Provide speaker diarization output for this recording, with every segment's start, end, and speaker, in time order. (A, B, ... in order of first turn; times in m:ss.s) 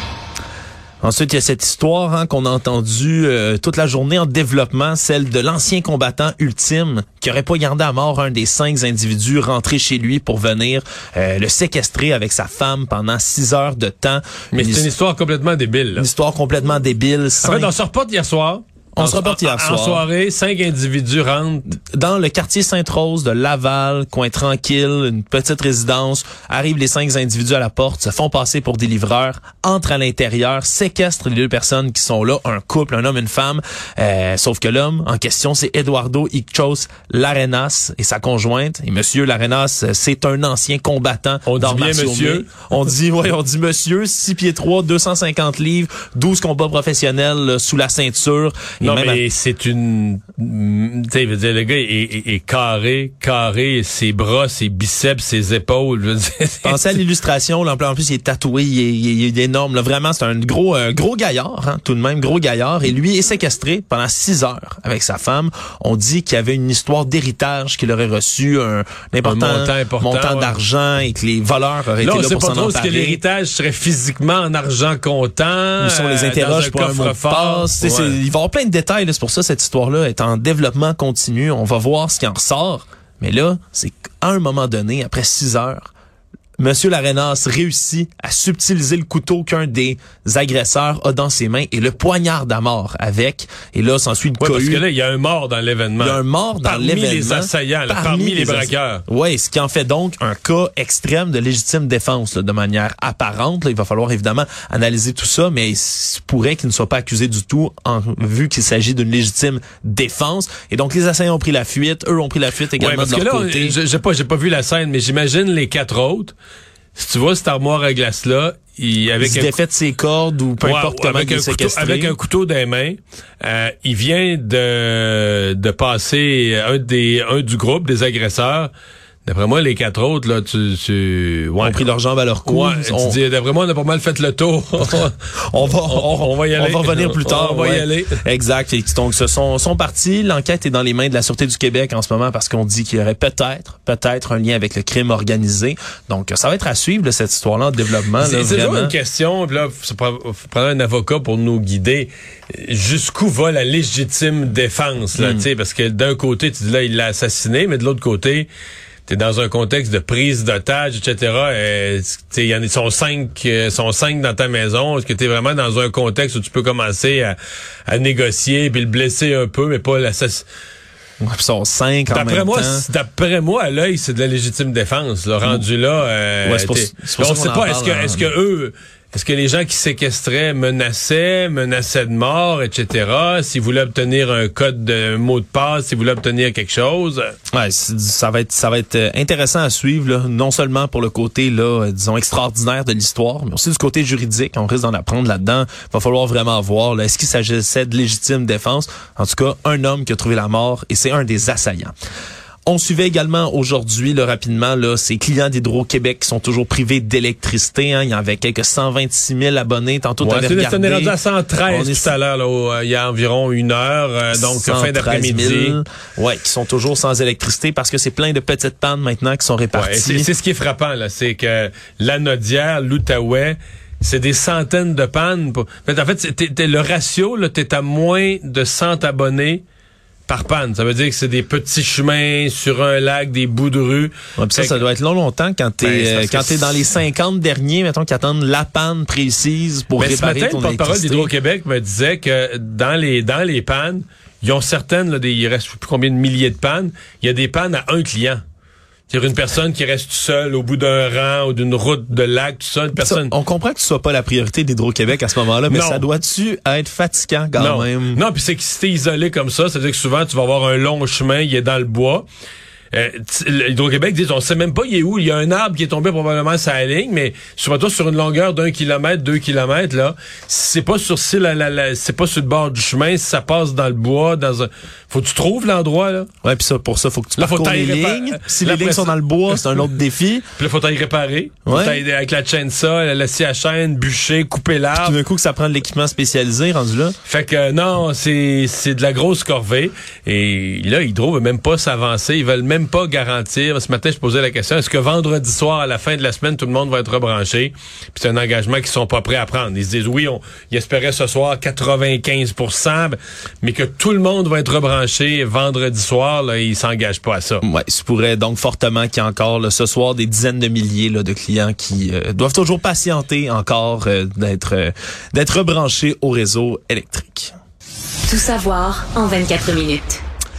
0:01.0-0:14.9 A
0:14.5-0:16.1 B
0:16.0-0:17.7 A
0:17.4-0:21.7 B
0:19.0-0:20.0 A
0:21.8-0:49.2 A
0:41.4-0:42.5 B
0:48.8-0:56.8 B
0:56.6-1:13.2 A
1:09.2-1:10.5 B
1:12.0-1:18.2 B
1:15.8-1:25.9 A
1:26.6-1:34.8 A
1:34.4-1:39.0 B
1:36.0-1:53.8 A
1:52.8-1:56.3 B
1:57.0-1:59.5 B
1:59.2-2:02.1 A
2:00.6-2:08.7 B
2:09.2-2:11.8 B
2:11.6-2:13.2 A
2:12.4-2:15.1 B
2:15.0-2:28.9 A
2:15.9-2:18.2 B
2:28.2-2:38.5 B
2:35.1-2:35.4 A
2:39.1-2:47.4 B
2:47.9-2:50.4 B
2:51.2-2:52.8 A
2:52.1-3:07.3 B
2:56.4-2:58.3 A
3:07.5-3:21.9 A
3:22.6-3:31.1 A
3:30.2-3:35.8 B
3:31.6-3:32.1 A
3:34.3-3:40.3 A
3:39.7-3:49.6 B
3:50.3-3:54.8 B
3:54.4-4:01.3 A
3:55.8-3:56.8 B
4:00.0-4:08.4 B
4:09.1-4:13.3 B
4:13.0-4:18.2 A
4:15.7-4:16.0 B
4:17.6-4:22.2 B
4:22.9-4:36.3 B
4:36.4-4:40.5 A
4:37.4-4:39.6 B
4:40.6-4:45.2 B
4:41.6-4:42.0 A
4:45.0-4:47.1 A
4:47.2-5:07.6 B
5:07.6-5:17.5 A
5:18.3-5:20.2 C